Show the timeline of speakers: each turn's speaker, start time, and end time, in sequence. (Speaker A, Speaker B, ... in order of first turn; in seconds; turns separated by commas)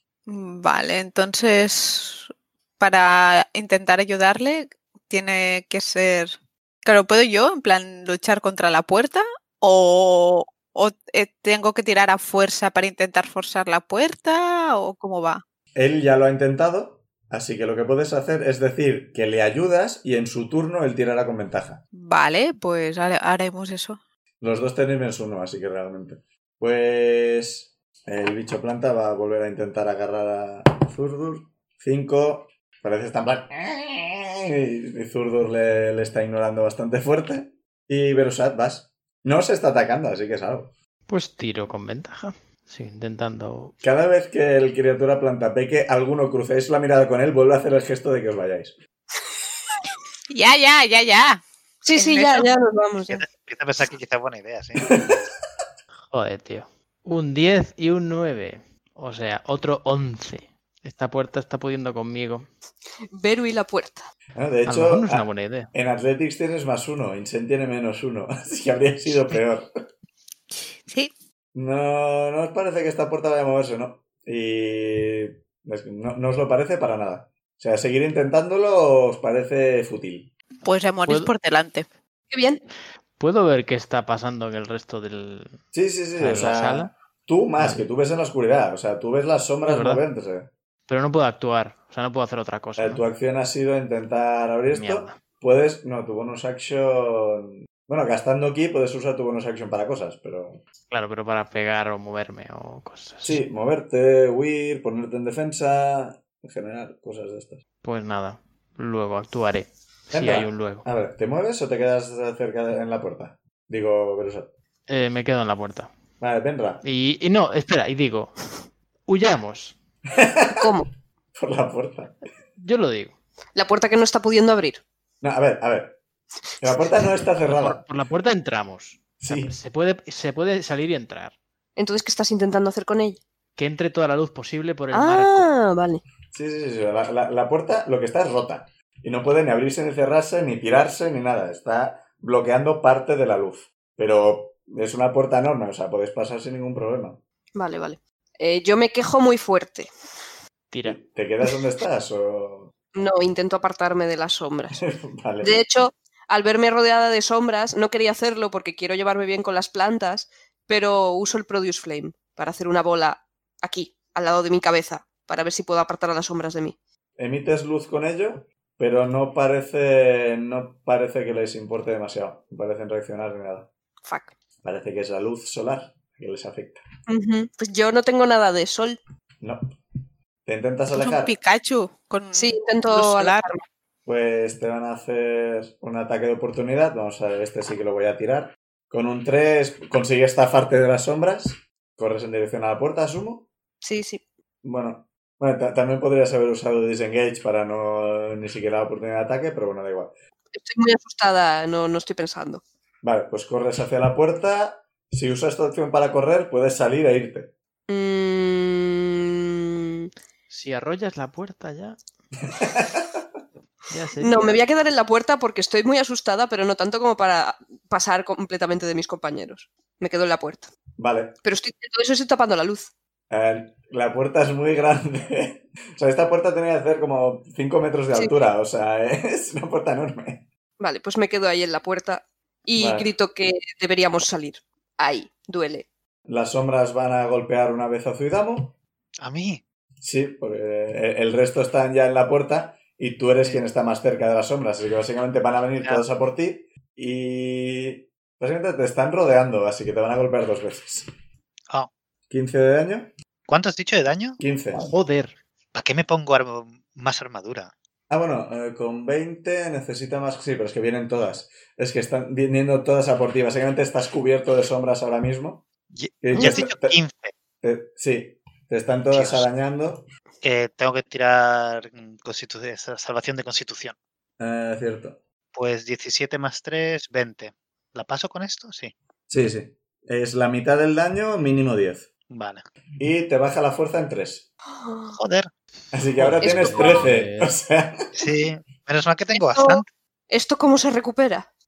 Speaker A: 0.3-15.4, Speaker B: 15.8-21.8, Speaker A: 21.9-24.0, Speaker B: 24.4-40.7, Speaker C: 41.1-43.7, Speaker B: 43.8-48.8, Speaker A: 50.3-51.4, Speaker D: 51.8-53.2, Speaker A: 52.0-52.5, Speaker E: 53.1-55.0, Speaker B: 54.9-55.2, Speaker C: 56.1-62.5, Speaker D: 63.1-64.1, Speaker B: 64.3-69.7, Speaker C: 64.7-65.7, Speaker B: 71.5-80.3, Speaker A: 80.6-81.9, Speaker C: 81.1-81.3, Speaker D: 82.3-82.6, Speaker C: 83.2-85.6, Speaker B: 85.7-90.5, Speaker C: 86.2-86.9, Speaker C: 87.6-87.8, Speaker C: 89.7-90.0, Speaker C: 90.9-93.0, Speaker B: 92.8-100.6, Speaker C: 94.7-95.2, Speaker C: 100.9-103.4, Speaker B: 103.2-107.6, Speaker C: 107.8-110.9, Speaker B: 110.1-114.5, Speaker C: 114.9-115.9, Speaker B: 116.2-116.8, Speaker C: 116.8-118.3, Speaker C: 119.1-119.8, Speaker B: 120.2-120.7, Speaker D: 120.6-120.9, Speaker B: 121.3-122.2, Speaker C: 122.6-123.2, Speaker D: 123.5-124.8, Speaker B: 125.2-126.0, Speaker B: 126.6-127.8, Speaker C: 127.5-131.4, Speaker B: 129.2-129.6, Speaker D: 131.8-133.2, Speaker C: 133.6-135.5, Speaker D: 134.9-136.0, Speaker B: 136.3-147.2, Speaker D: 147.6-149.9, Speaker C: 150.7-151.0, Speaker B: 150.8-152.7, Speaker D: 152.9-154.8, Speaker B: 154.8-155.6, Speaker D: 155.4-166.8, Speaker B: 167.2-173.7, Speaker D: 174.0-174.3, Speaker B: 174.6-176.8, Speaker D: 177.1-179.0, Speaker B: 180.5-181.3, Speaker A: 180.9-183.4, Speaker D: 182.3-183.6, Speaker B: 184.1-193.5, Speaker D: 193.8-194.2, Speaker B: 194.6-200.1, Speaker D: 200.5-202.6, Speaker B: 203.0-207.5, Speaker D: 207.9-210.1, Speaker C: 210.5-212.0, Speaker B: 212.5-213.2, Speaker C: 213.9-214.7, Speaker D: 214.2-220.7, Speaker B: 221.0-221.4, Speaker D: 221.4-222.9, Speaker B: 223.3-230.4, Speaker D: 230.8-235.9, Speaker B: 232.8-233.1, Speaker B: 236.3-238.8, Speaker E: 239.2-239.6, Speaker B: 240.0-251.1, Speaker B: 252.3-253.1, Speaker E: 253.5-254.4, Speaker B: 254.4-254.9, Speaker C: 254.7-255.4, Speaker E: 255.7-257.7, Speaker B: 258.1-265.6, Speaker E: 265.9-267.3, Speaker B: 266.2-267.0, Speaker B: 267.6-270.1, Speaker E: 269.1-269.5, Speaker E: 270.4-274.0, Speaker B: 274.4-275.2, Speaker E: 275.5-278.9, Speaker B: 279.3-282.1, Speaker E: 282.3-282.6, Speaker B: 283.0-284.5, Speaker D: 284.8-285.2, Speaker E: 285.2-285.5, Speaker B: 285.9-288.1, Speaker C: 286.1-287.6, Speaker D: 286.4-287.1, Speaker E: 288.1-289.9, Speaker D: 289.4-291.5